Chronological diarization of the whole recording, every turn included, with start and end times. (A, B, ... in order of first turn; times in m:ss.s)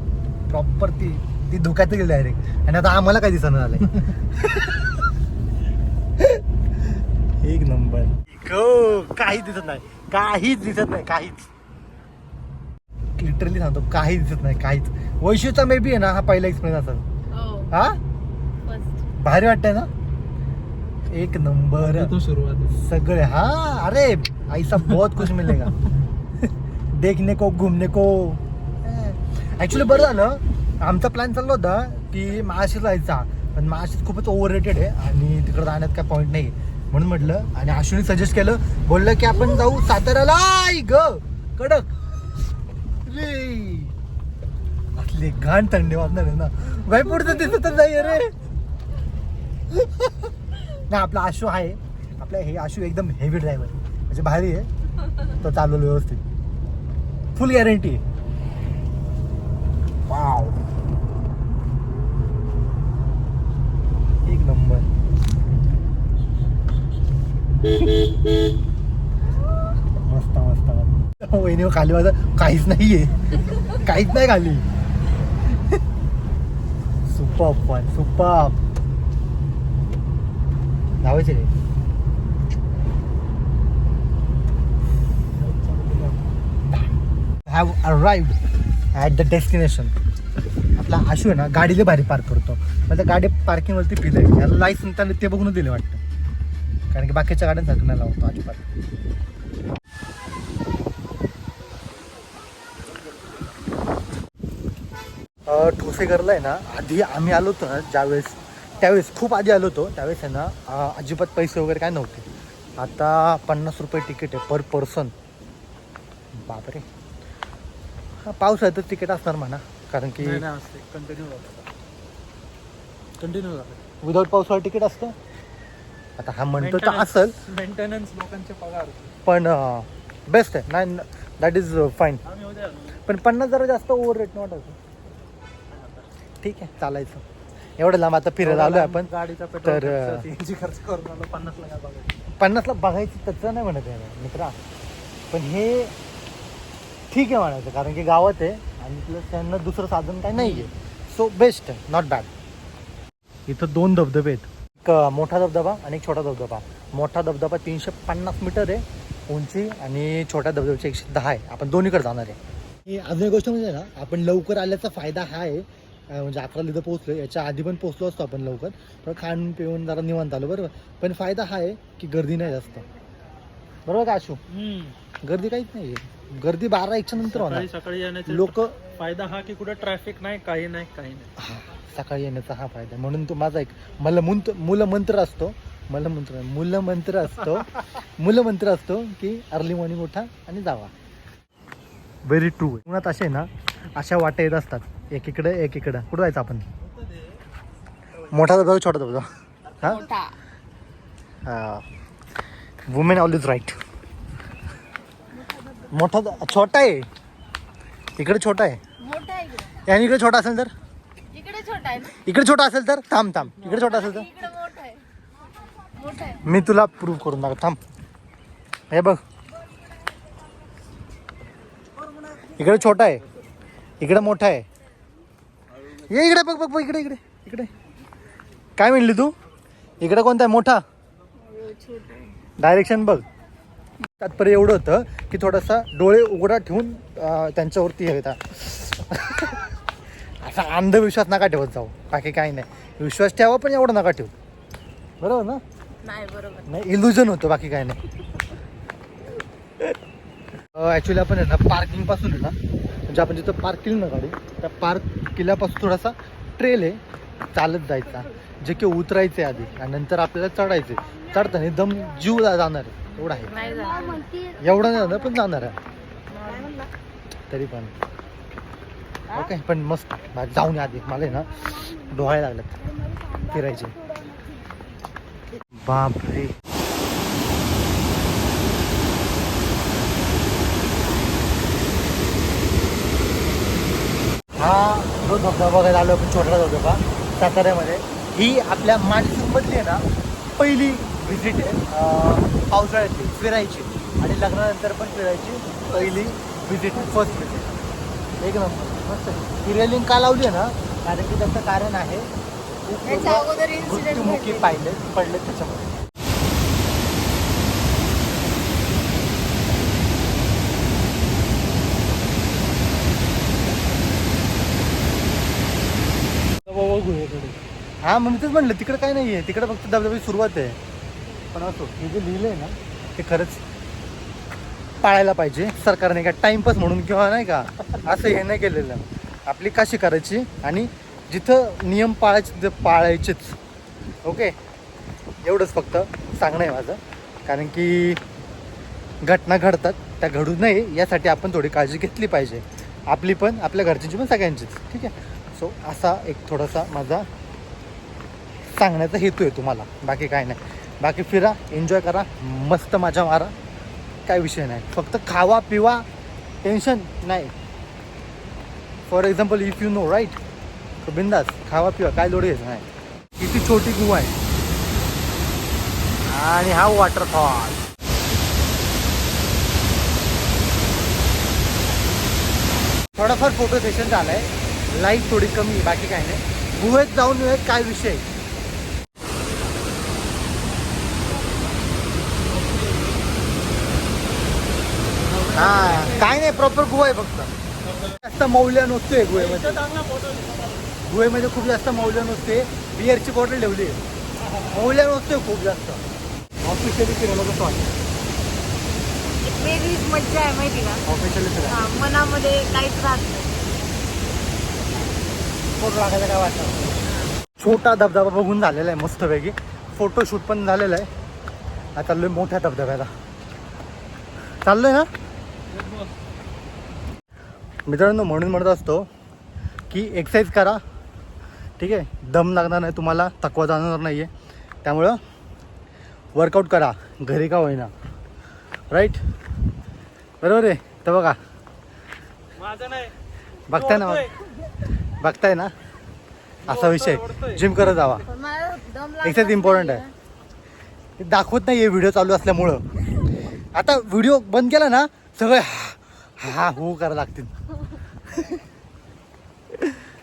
0:00.5-0:04.9 A
0:07.0-0:11.5 A
0:13.2-0:17.0 A
0:17.3-0:17.7 B
0:17.7-0:18.0 A
0:18.6-0:19.0 B
0:19.2-0:19.9 A
0:21.1-0:22.1 A
0:21.8-0:22.7 C
0:22.7-0:25.8 A
0:26.9-0:41.9 A
0:43.1-0:44.0 A
0:45.0-0:48.3 A
0:49.7-0:50.1 A
0:50.9-0:54.7 A
0:55.4-0:56.2 A
0:57.4-0:58.0 A
1:00.1-1:00.6 A
1:04.2-1:04.9 A
1:10.0-1:14.6 A
1:17.1-1:18.6 A
1:21.0-1:21.5 A
1:25.4-1:26.3 C
1:27.5-1:28.4 A
1:29.0-1:29.9 A
1:30.8-1:36.0 A
1:36.9-1:38.6 A
1:45.5-1:52.3 A
1:52.8-1:55.1 A
1:56.3-1:56.9 A
1:58.3-2:00.4 A
2:00.2-2:01.7 C
2:03.2-2:03.8 C
2:04.0-2:05.2 A
2:06.2-2:07.4 A
2:06.6-2:09.2 C
2:09.3-2:12.2 A
2:12.2-2:13.0 C
2:13.1-2:14.8 A
2:15.7-2:16.1 C
2:16.4-2:17.2 A
2:17.8-2:19.1 A
2:18.4-2:22.1 C
2:19.6-2:20.3 A
2:22.4-2:24.6 A
2:25.3-2:25.9 A
2:27.1-2:32.3 A
2:30.4-2:30.7 C
2:33.5-2:52.8 A
2:53.9-2:54.4 A
2:54.5-2:55.0 C
2:55.2-2:57.7 A
2:57.2-3:01.3 C
2:58.3-2:58.8 A
3:01.4-3:10.9 A
3:12.2-3:16.6 A
3:18.3-3:19.3 A
3:19.8-3:20.4 B
3:21.4-3:21.8 A
3:22.9-3:23.8 A
3:25.9-3:27.1 A
3:28.2-3:28.8 A
3:29.0-3:29.8 B
3:29.9-3:30.7 A
3:31.3-3:32.2 B
3:32.2-3:34.3 A
3:33.7-3:35.0 B
3:35.9-3:36.5 B
3:36.4-3:37.8 A
3:38.9-3:39.2 A
3:42.6-3:43.2 A
3:44.0-3:44.6 A
3:46.1-3:47.7 A
3:48.8-3:49.3 A
3:50.0-3:50.8 A
3:51.4-3:52.3 B
3:52.6-3:53.2 A
3:54.2-3:59.6 A
4:00.4-4:04.3 A
4:05.2-4:05.6 A
4:06.0-4:06.7 B
4:06.7-4:08.0 A
4:10.7-4:12.6 A
4:13.1-4:17.0 A
4:17.5-4:23.7 A
4:23.4-4:25.0 B
4:24.6-4:25.8 A
4:26.3-4:26.9 B
4:27.5-4:27.9 A
4:29.3-4:29.5 B
4:29.3-4:31.5 A
4:32.1-4:32.8 A
4:33.4-4:34.0 A
4:35.7-4:36.6 A
4:44.6-4:50.0 A
4:50.6-4:57.7 A
4:58.4-5:02.3 A
5:02.9-5:05.9 A
5:03.0-5:04.8 B
5:16.6-5:17.6 C
5:18.0-5:20.8 A
5:21.5-5:23.6 A
5:25.0-5:33.6 A
5:34.2-5:34.6 A
5:35.4-5:38.2 A
5:39.2-5:47.3 A
5:48.7-5:53.5 A
5:54.3-5:56.1 A
5:56.6-5:57.5 A
5:59.1-6:00.4 A
6:01.0-6:02.9 A
6:03.4-6:04.4 A
6:06.2-6:07.8 A
6:13.2-6:18.2 A
6:25.3-6:26.3 C
6:25.5-6:27.5 A
6:28.2-6:29.8 A
6:29.3-6:30.5 C
6:31.1-6:34.0 A
6:34.7-6:36.0 A
6:36.6-6:37.9 A
6:39.4-6:41.0 B
6:41.0-6:41.8 A
6:41.7-6:43.6 B
6:45.8-6:46.9 A
6:47.0-6:47.3 B
6:47.6-6:51.1 A
6:52.0-6:53.1 A
6:54.6-6:55.1 A
6:55.7-6:56.1 C
6:57.9-6:59.1 A
6:59.9-7:00.8 A
7:01.8-7:04.3 A
7:04.8-7:05.2 A
7:06.4-7:07.9 A
7:08.9-7:09.2 A
7:10.4-7:11.4 A
7:12.6-7:13.1 C
7:13.7-7:14.3 A
7:13.7-7:14.3 C
7:15.2-7:15.7 A
7:16.6-7:18.2 A
7:16.7-7:17.6 C
7:18.2-7:20.1 B
7:19.2-7:20.0 A
7:21.2-7:22.8 A
7:23.7-7:27.5 A